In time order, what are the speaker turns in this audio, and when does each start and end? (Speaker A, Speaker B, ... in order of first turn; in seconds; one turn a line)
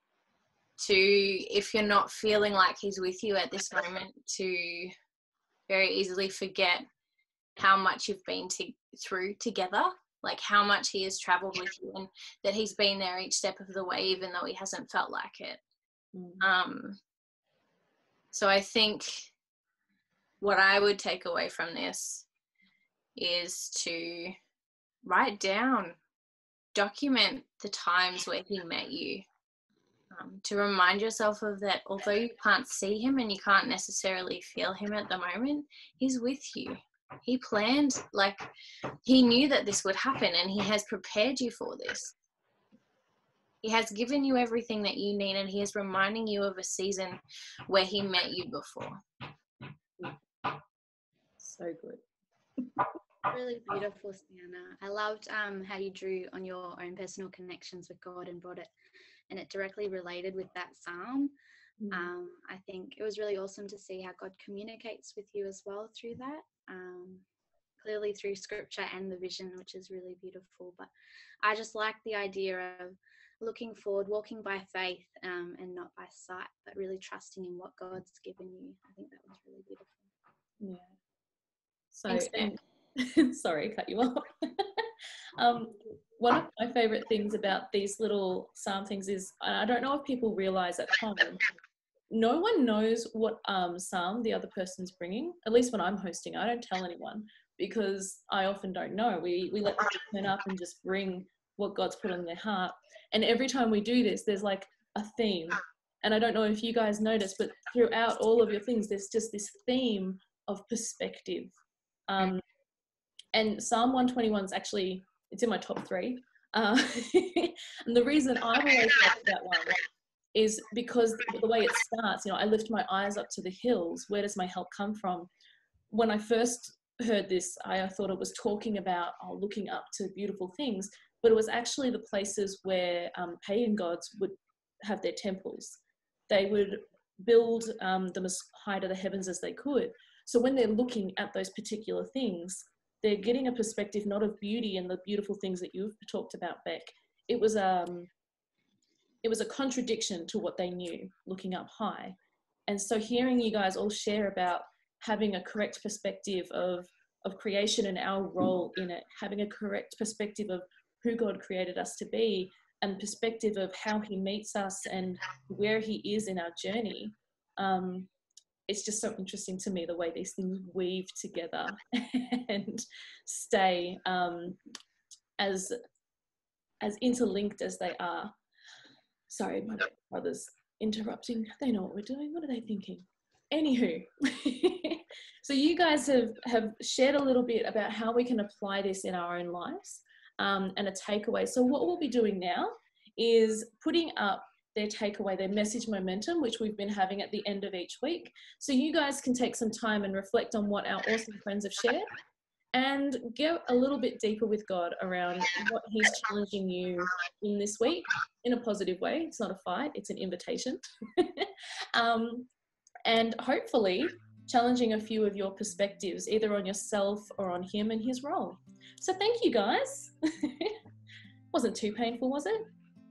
Speaker A: 0.8-4.9
Speaker A: 5.7-6.9
Speaker A: 7.6-15.6
Speaker B: 16.1-16.5
Speaker A: 16.4-17.0
Speaker A: 18.3-19.3
Speaker A: 20.4-22.3
Speaker A: 23.2-24.4
Speaker A: 25.0-26.0
Speaker A: 26.8-29.2
Speaker A: 30.1-38.5
Speaker A: 39.0-42.1
Speaker A: 43.6-49.0
Speaker B: 51.4-52.0
Speaker C: 53.3-58.7
Speaker C: 59.3-61.3
Speaker B: 61.8-62.1
Speaker C: 61.9-67.2
Speaker C: 67.8-70.9
Speaker C: 71.4-80.1
Speaker B: 80.6-80.9
Speaker B: 82.0-84.9
Speaker A: 82.2-82.5
Speaker B: 85.4-91.4
Speaker B: 92.1-111.5
Speaker B: 112.1-112.4
Speaker B: 113.3-119.8
Speaker B: 120.3-125.3
Speaker B: 125.9-148.1
Speaker B: 149.2-152.2
Speaker B: 152.7-168.1
Speaker B: 168.7-174.6
Speaker B: 175.4-175.8
Speaker B: 176.8-178.3
Speaker B: 179.3-202.1
Speaker B: 202.7-212.5
Speaker B: 213.1-220.8
Speaker B: 221.5-222.6